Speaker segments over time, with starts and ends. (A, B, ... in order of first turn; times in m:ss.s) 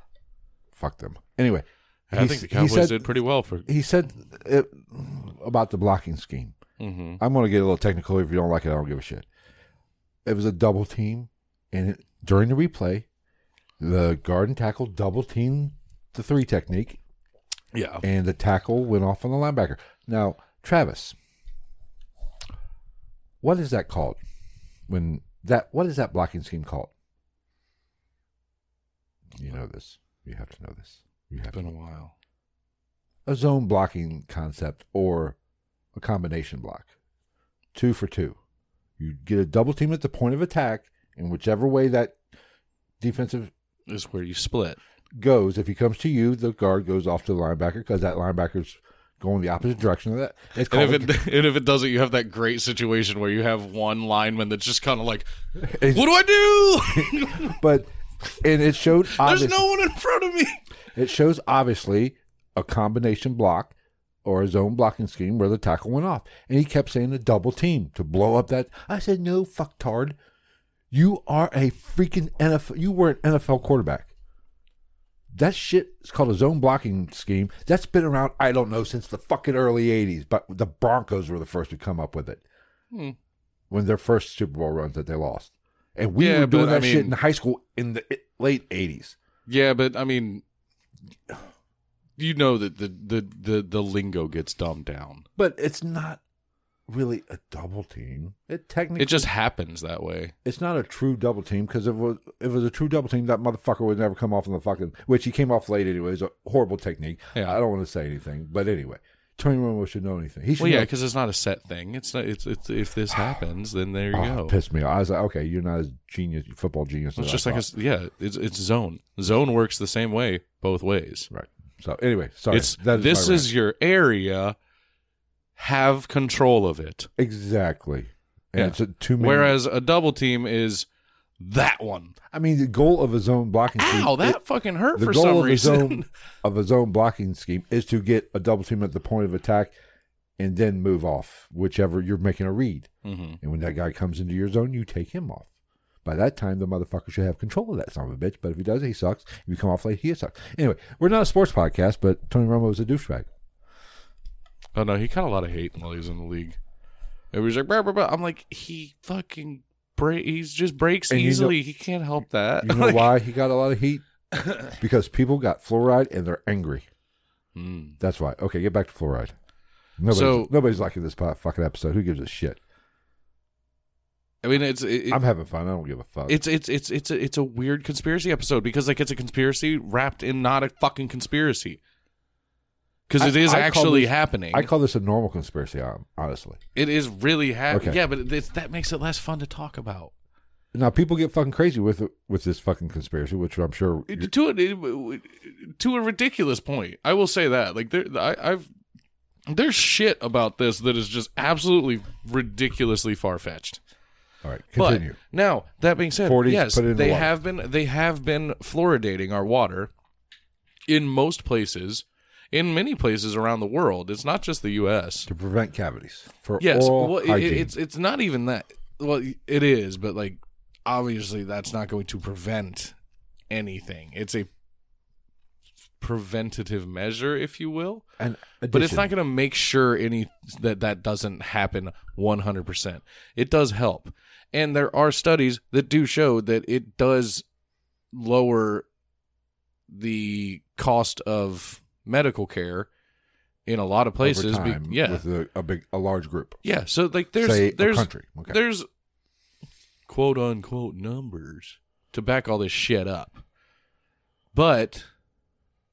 0:00.7-0:03.1 A
0:02.1-0:03.7 B
0:03.7-0:06.6 A
0:06.8-0:07.2 B
0:07.2-0:09.3 A
0:10.2-0:13.1 A
0:13.8-0:17.0 A
0:17.7-0:18.0 B
0:18.0-0:21.2 A
0:23.4-0:24.2 A
0:24.9-0:26.9 A
0:29.4-0:31.7 A
0:31.5-0:32.1 B
0:33.3-0:35.4 A
0:36.0-0:36.9 A
0:37.7-0:38.4 A
0:39.0-0:42.2 A
0:43.0-0:43.5 A
0:43.9-0:44.8 B
0:45.2-0:51.2 A
0:50.7-0:55.3 B
0:55.6-0:56.1 A
0:55.9-0:57.6 B
0:56.8-0:59.7 A
0:59.0-1:00.6 B
1:01.0-1:10.2 A
1:10.9-1:14.1 A
1:15.3-1:22.4 A
1:23.7-1:29.2 A
1:26.2-1:27.2 B
1:29.5-1:30.4 B
1:32.2-1:35.3 B
1:35.4-1:36.2 A
1:36.9-1:39.3 A
1:39.0-1:40.3 B
1:40.4-1:50.9 A
1:50.6-1:54.6 B
1:54.1-1:57.7 A
1:57.2-2:01.3 B
2:01.3-2:03.5 A
2:02.5-2:04.6 B
2:05.6-2:07.1 B
2:07.2-2:09.6 A
2:08.6-2:10.9 B
2:11.4-2:12.2 B
2:12.3-2:14.4 A
2:13.8-2:16.1 B
2:15.0-2:19.8 A
2:20.4-2:22.9 A
2:23.0-2:23.4 B
2:23.4-2:25.5 A
2:26.0-2:33.3 A
2:34.8-2:36.6 B
2:37.3-2:43.2 B
2:41.1-2:41.6 A
2:42.6-2:44.1 A
2:44.3-2:44.7 B
2:44.7-2:46.9 A
2:47.6-2:48.0 B
2:48.0-2:49.3 A
2:50.0-2:52.6 A
2:50.1-2:50.5 B
2:54.4-2:55.2 B
2:55.1-2:56.4 A
2:56.3-3:01.8 B
3:03.1-3:04.7 B
3:03.2-3:06.6 A
3:06.8-3:10.1 B
3:07.7-3:08.0 A
3:10.7-3:14.3 A
3:14.1-3:18.7 B
3:19.5-3:23.8 B
3:24.4-3:25.2 A
3:24.8-3:29.9 B
3:26.2-3:27.3 A
3:30.9-3:35.3 B
3:35.3-3:37.7 A
3:36.6-3:43.0 B
3:43.5-3:44.5 B
3:46.0-3:48.0 B
3:48.2-3:49.1 A
3:48.7-3:57.4 B
3:58.1-3:58.9 B
3:59.9-4:02.9 B
4:03.7-4:05.2 B
4:04.2-4:06.6 A
4:06.6-4:08.9 B
4:07.4-4:08.6 A
4:10.1-4:13.4 B
4:14.5-4:15.1 B